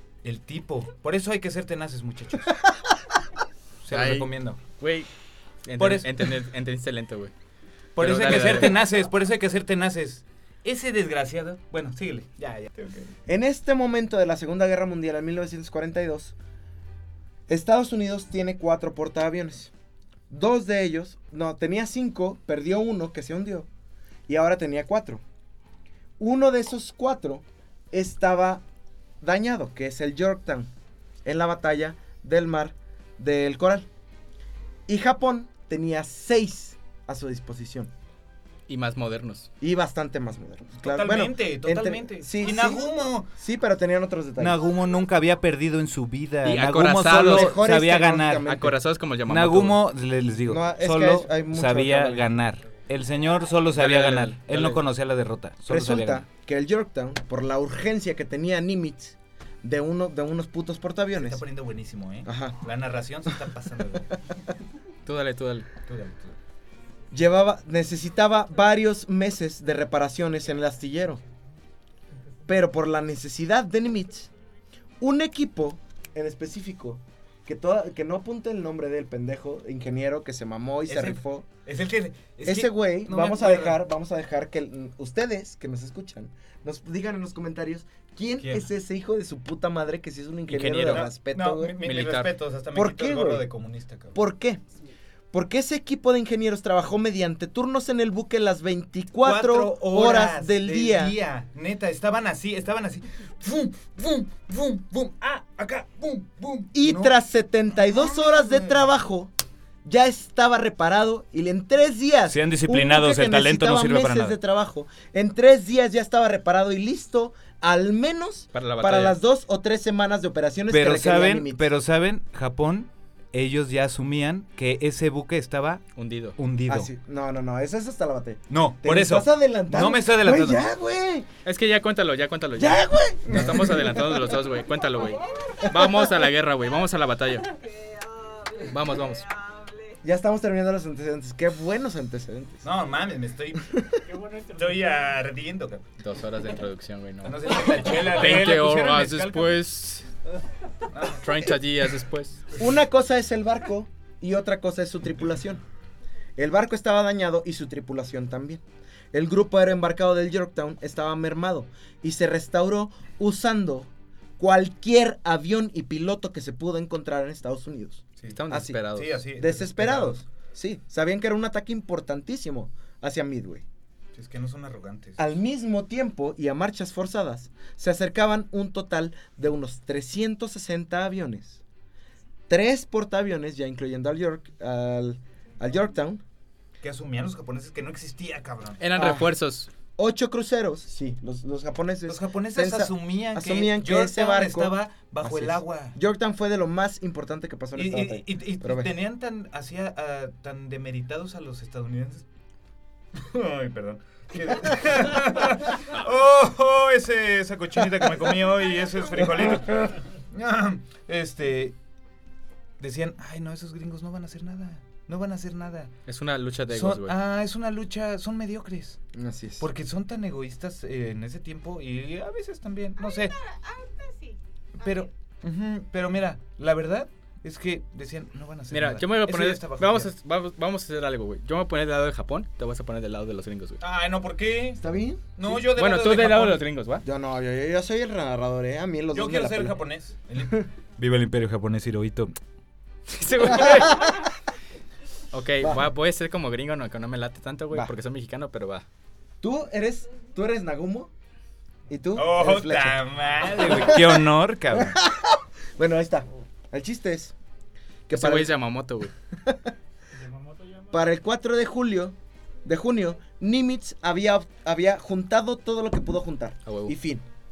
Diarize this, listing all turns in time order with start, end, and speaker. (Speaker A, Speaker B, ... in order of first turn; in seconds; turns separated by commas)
Speaker A: 0.2-2.5, Speaker A: 3.8-4.6, Speaker B: 3.9-5.1, Speaker B: 5.7-7.3, Speaker A: 5.8-6.3, Speaker A: 8.0-13.1, Speaker B: 8.0-8.8, Speaker C: 13.3-16.3, Speaker C: 17.5-19.7, Speaker C: 20.3-23.7, Speaker C: 24.3-25.2, Speaker C: 26.2-28.6, Speaker C: 29.2-30.7, Speaker C: 31.2-33.9, Speaker C: 34.9-37.9, Speaker B: 38.7-39.5, Speaker C: 39.6-44.6, Speaker A: 40.8-43.3, Speaker A: 44.4-48.5, Speaker B: 46.4-47.6, Speaker C: 47.1-48.8, Speaker B: 48.5-49.8, Speaker A: 49.3-56.2, Speaker C: 50.5-52.3, Speaker B: 53.8-54.8, Speaker C: 55.7-61.4, Speaker A: 61.2-64.2, Speaker C: 62.2-62.6, Speaker B: 65.1-65.7, Speaker A: 65.9-66.4, Speaker C: 67.1-71.2, Speaker C: 72.5-74.3, Speaker C: 75.0-81.5, Speaker A: 80.9-83.8, Speaker C: 82.5-91.8, Speaker A: 88.4-88.7, Speaker B: 90.5-91.1, Speaker A: 90.9-94.2, Speaker B: 91.8-92.3, Speaker C: 92.7-93.5, Speaker C: 94.2-94.6, Speaker C: 95.3-101.2, Speaker A: 99.2-107.1, Speaker C: 106.7-109.3, Speaker C: 109.8-121.7, Speaker A: 112.3-114.4, Speaker B: 118.5-119.2, Speaker A: 120.7-125.9, Speaker B: 126.0-126.4, Speaker A: 126.4-126.9, Speaker C: 126.7-131.3, Speaker A: 128.5-130.7, Speaker B: 131.4-137.5, Speaker C: 132.6-134.3, Speaker D: 134.9-136.1, Speaker D: 137.4-140.0, Speaker B: 138.7-139.2, Speaker C: 140.0-142.7, Speaker A: 142.6-143.7, Speaker C: 143.6-144.0, Speaker E: 144.1-145.1, Speaker A: 144.6-145.8, Speaker B: 146.0-150.1, Speaker A: 147.2-149.6, Speaker A: 150.9-151.3, Speaker B: 151.2-152.4, Speaker C: 152.6-155.6, Speaker C: 156.4-168.8, Speaker B: 168.3-169.2, Speaker A: 168.9-170.2, Speaker C: 169.4-173.7, Speaker A: 174.2-175.3, Speaker C: 175.2-181.6, Speaker C: 182.5-186.2, Speaker A: 186.8-188.8, Speaker B: 188.8-189.7, Speaker C: 189.0-189.3, Speaker C: 190.0-198.9, Speaker A: 192.1-196.0, Speaker A: 197.8-202.3, Speaker A: 203.1-211.8, Speaker A: 212.8-215.9, Speaker B: 216.1-217.2, Speaker A: 216.7-219.0, Speaker C: 219.1-219.7, Speaker A: 219.6-223.3, Speaker D: 223.0-225.1, Speaker A: 224.8-230.1, Speaker B: 228.7-233.8, Speaker A: 233.8-234.9, Speaker C: 234.8-235.3, Speaker A: 235.4-236.6, Speaker B: 235.7-237.1, Speaker C: 237.0-239.8, Speaker A: 239.1-242.3, Speaker B: 243.1-244.2, Speaker C: 243.7-244.1, Speaker B: 245.3-248.9, Speaker C: 249.4-251.1, Speaker C: 251.9-257.4, Speaker A: 252.2-255.0, Speaker C: 258.1-258.5, Speaker B: 258.1-259.1, Speaker C: 259.4-259.7, Speaker E: 260.1-261.1, Speaker C: 260.9-267.3, Speaker B: 266.7-266.9